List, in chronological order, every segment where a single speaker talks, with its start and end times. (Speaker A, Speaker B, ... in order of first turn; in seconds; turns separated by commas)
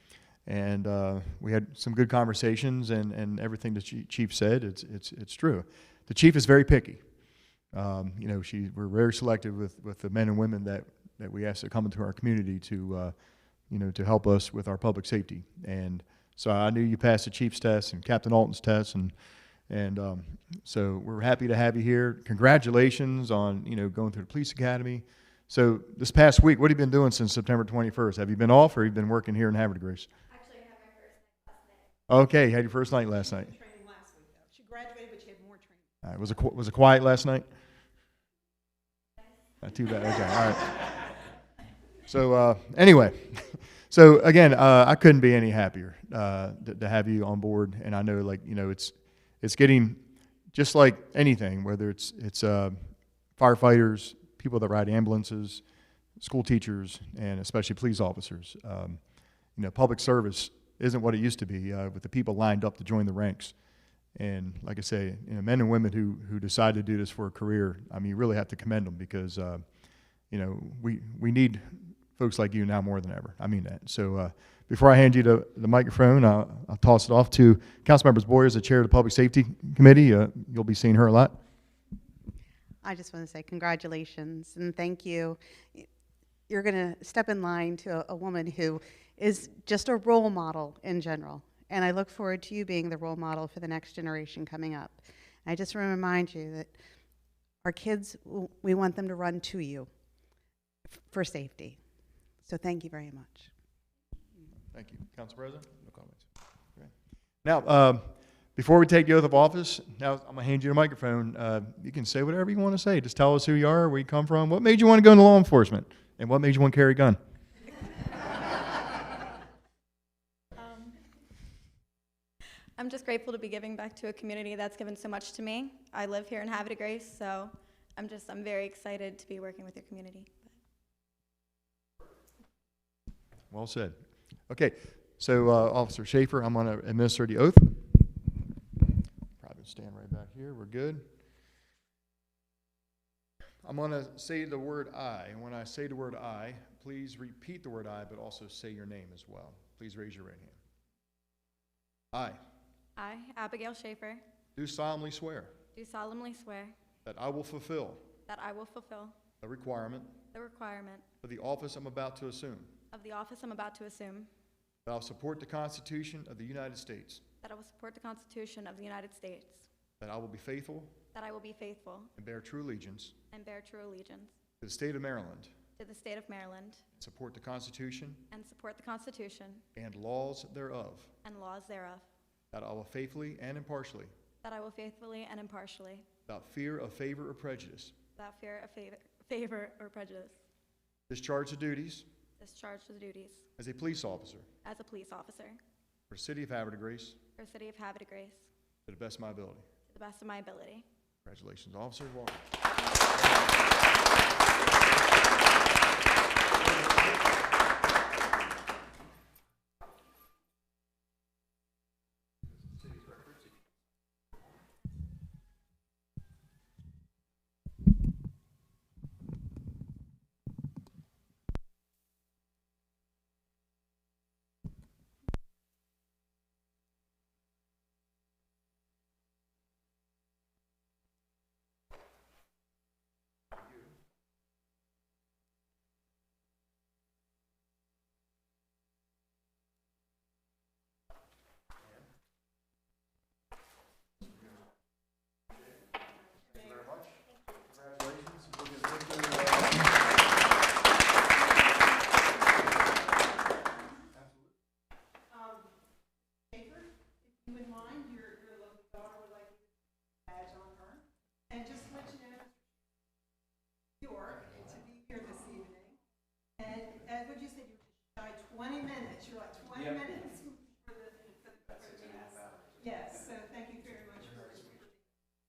Speaker A: 0.5-7.0, Speaker A: 7.7-13.1, Speaker A: 13.7-19.1, Speaker A: 19.7-30.1, Speaker B: 30.3-31.9, Speaker A: 32.1-33.5, Speaker C: 33.5-35.8, Speaker A: 36.0-37.5, Speaker A: 39.6-40.9, Speaker A: 42.0-50.0, Speaker A: 50.5-55.6, Speaker A: 56.2-59.0, Speaker A: 59.6-63.5, Speaker A: 64.2-69.6, Speaker A: 70.3-81.4, Speaker D: 82.8-85.9, Speaker D: 86.5-96.8, Speaker D: 97.6-99.9, Speaker D: 101.0-101.8, Speaker D: 102.5-103.5, Speaker A: 104.7-105.8, Speaker A: 107.4-117.2, Speaker B: 122.8-130.6, Speaker A: 133.5-134.0, Speaker A: 134.5-137.9, Speaker A: 139.4-141.1, Speaker A: 143.6-150.6, Speaker A: 152.1-152.4, Speaker B: 153.0-154.2, Speaker A: 154.6-155.5, Speaker B: 155.8-156.8, Speaker A: 157.0-158.0, Speaker B: 158.3-159.2, Speaker A: 159.4-160.2, Speaker B: 160.3-161.1, Speaker A: 161.2-162.7, Speaker B: 162.9-164.3, Speaker A: 164.9-167.2, Speaker B: 167.4-169.7, Speaker A: 170.0-171.0, Speaker B: 171.1-172.1, Speaker A: 172.2-173.2, Speaker B: 173.3-174.4, Speaker A: 174.6-175.5, Speaker B: 175.8-176.8, Speaker A: 177.0-178.2, Speaker B: 178.3-179.6, Speaker A: 179.8-181.1, Speaker B: 181.2-182.1, Speaker A: 182.5-184.1, Speaker B: 184.4-186.1, Speaker A: 186.3-187.9, Speaker B: 188.2-190.4, Speaker A: 191.1-192.1, Speaker B: 192.4-193.5, Speaker A: 193.6-194.5, Speaker B: 194.6-195.6, Speaker A: 196.1-197.2, Speaker B: 197.4-198.5, Speaker A: 198.9-199.7, Speaker B: 199.9-200.9, Speaker A: 201.2-202.5, Speaker A: 203.1-203.6, Speaker A: 206.6-207.2, Speaker A: 246.5-250.0, Speaker A: 254.1-254.5, Speaker C: 255.3-255.6, Speaker C: 256.5-256.9, Speaker C: 257.4-259.6, Speaker C: 260.3-262.5, Speaker C: 264.0-265.9, Speaker C: 266.6-274.9